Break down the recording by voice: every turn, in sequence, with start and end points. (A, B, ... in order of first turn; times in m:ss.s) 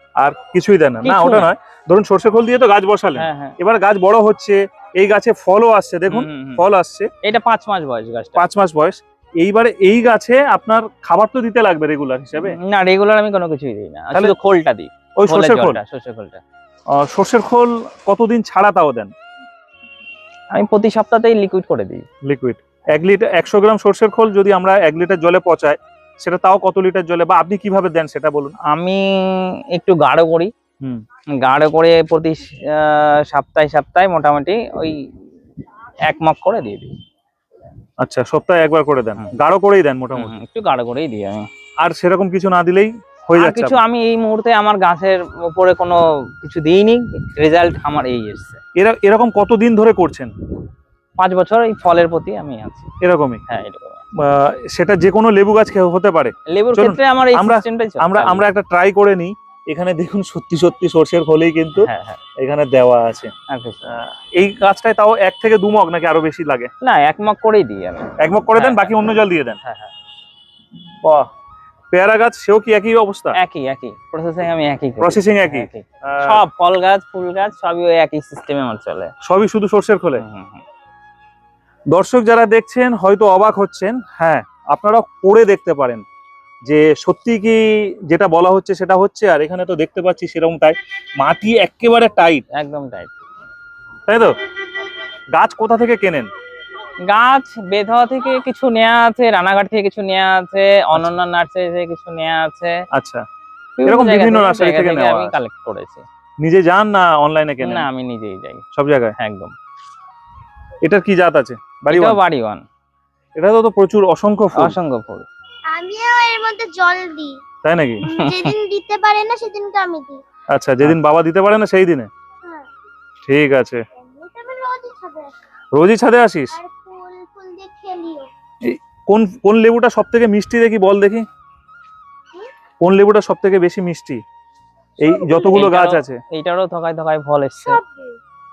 0:00.2-0:07.1 A
0:01.0-0:01.5 B
0:03.2-0:03.6 B
0:06.1-0:06.6 B
0:07.2-0:08.4 B
0:08.4-0:12.6 A
0:12.4-0:16.4 B
0:15.2-0:15.8 A
0:17.0-0:19.1 A
0:20.5-0:22.0 B
0:22.2-0:28.5 A
0:28.7-0:30.5 B
0:31.4-0:35.0 B
0:36.0-0:36.9 B
0:38.0-0:40.3 A
0:40.1-0:41.5 B
0:41.8-0:43.8 A
0:43.4-0:48.6 B
0:48.8-0:50.3 A
0:51.2-0:52.9 B
0:53.0-0:53.4 A
0:53.5-0:54.0 B
0:54.2-1:01.9 A
0:56.5-0:58.5 B
1:01.8-1:02.2 B
1:02.4-1:03.3 A
1:03.5-1:04.0 B
1:03.9-1:06.7 A
1:06.8-1:09.9 B
1:08.2-1:09.6 A
1:11.0-1:11.3 A
1:11.9-1:13.4 A
1:13.4-1:19.1 B
1:15.0-1:16.4 A
1:19.2-1:20.2 A
1:20.2-1:20.6 B
1:21.9-1:26.0 A
1:26.7-1:32.4 A
1:32.6-1:33.1 B
1:34.1-1:34.3 A
1:35.3-1:36.3 A
1:37.1-1:42.8 B
1:42.9-1:43.2 A
1:43.8-1:46.0 B
1:43.8-1:45.4 A
1:46.4-1:47.9 A
1:47.6-1:48.7 B
1:48.7-1:49.1 A
1:49.2-1:49.5 B
1:50.8-1:52.2 A
1:51.9-1:52.6 B
1:53.3-1:54.8 A
1:54.6-1:55.2 B
1:55.7-1:57.4 C
1:57.6-1:58.0 A
1:58.0-2:00.2 C
1:58.0-1:58.6 B
2:00.5-2:02.1 A
2:03.2-2:03.8 A
2:04.0-2:05.3 C
2:05.7-2:06.6 A
2:06.5-2:08.3 C
2:08.6-2:11.2 A
2:12.8-2:14.2 A
2:15.0-2:16.2 A
2:15.5-2:17.8 B
2:17.8-2:18.2 C